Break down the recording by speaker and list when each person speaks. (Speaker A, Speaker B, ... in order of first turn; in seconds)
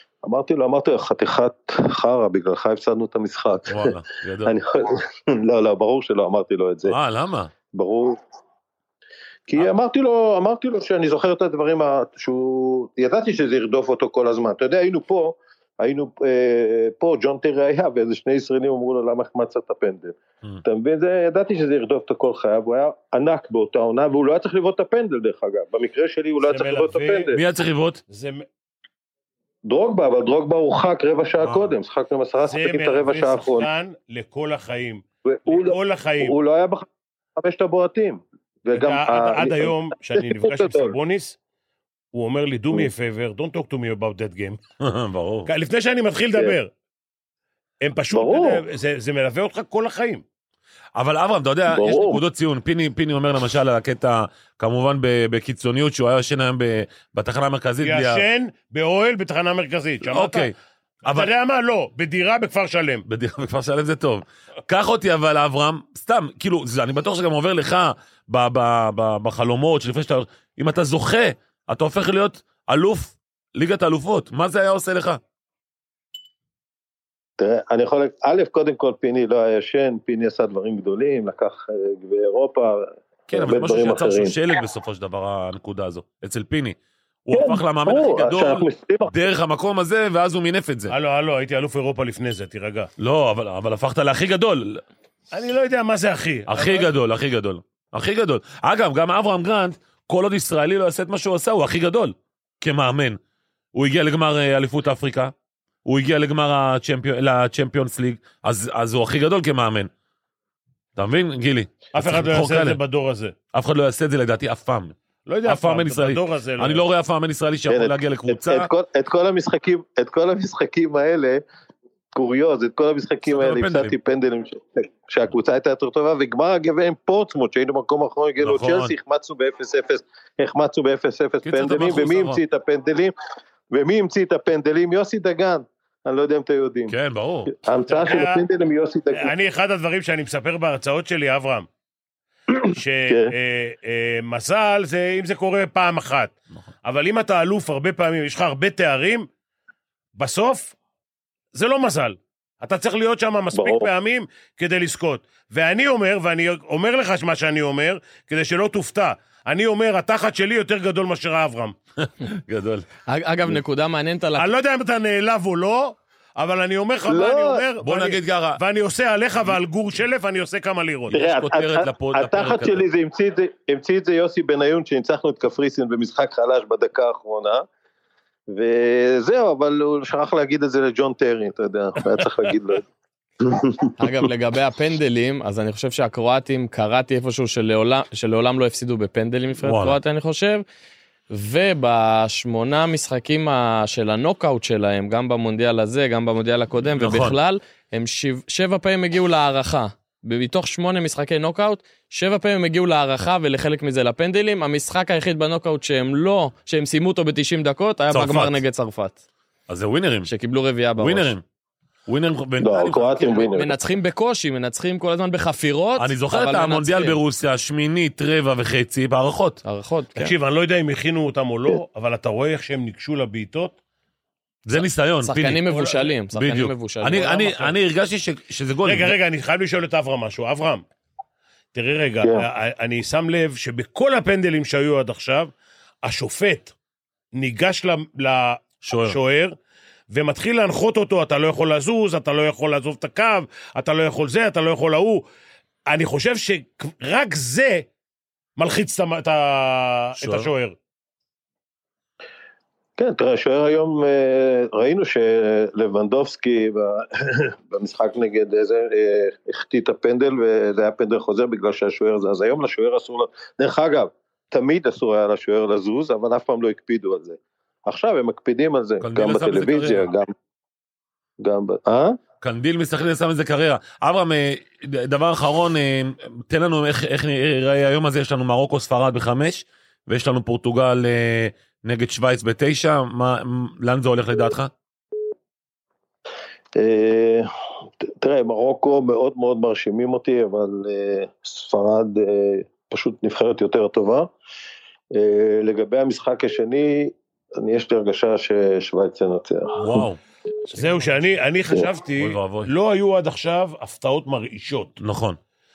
Speaker A: 0.2-7.0, 7.7-8.2, 9.5-27.4, 29.6-33.7, 35.2-41.0, 48.1-48.6, 51.7-52.2, 77.4-84.4, 87.3-89.1, 117.7-121.4, 122.1-133.1, 133.7-136.9, 137.5-139.3, 142.5-143.3, 153.5-153.9, 167.1-167.7, 171.1-177.6, 178.5-182.8, 183.4-183.9, 212.6-213.8, 253.0-270.3, 271.4-272.2, 286.8-287.5, 288.0-294.3, 295.1-300.1
Speaker B: 3.7-4.5, 6.9-7.5, 27.3-28.0, 31.4-31.7, 44.8-45.5, 51.0-58.2, 60.1-60.5, 63.1-75.2, 83.3-90.9, 93.0-94.8, 96.5-103.2, 103.7-105.3, 105.8-109.9, 111.0-112.8, 113.5-114.9, 115.5-118.7, 123.2-123.9, 128.4-128.9, 131.4-132.4, 136.9-137.5, 162.0-162.8, 167.8-168.6, 171.1-172.8, 189.6-190.0, 197.0-197.4, 208.1-208.6, 209.7-210.3, 211.0-211.4, 212.1-213.4, 216.0-219.6, 224.7-225.7, 226.3-229.1, 238.8-239.2, 250.2-250.5, 269.0-270.1, 272.4-284.7, 299.8-300.2, 302.2-302.7, 305.0-305.4
Speaker C: 26.4-27.3, 28.1-28.4, 32.4-36.3, 38.7-41.4, 42.1-44.6, 45.5-46.7, 47.8-50.2, 57.8-60.5, 61.1-63.0, 90.9-92.9, 95.3-96.9, 111.9-113.3, 115.3-116.8, 137.9-138.4, 139.1-141.7, 142.6-146.3, 146.8-149.3, 150.2-150.7, 151.5-161.7, 164.4-171.2, 220.2-223.7, 228.8-230.8, 231.7-235.5, 236.0-236.7, 237.3-239.5, 240.1-245.2, 245.9-247.8, 248.6-250.7, 300.7-304.9
Speaker D: 163.1-164.5, 184.0-190.6, 191.3-209.2, 210.2-211.3, 213.4-217.2, 219.6-220.3, 225.2-227.7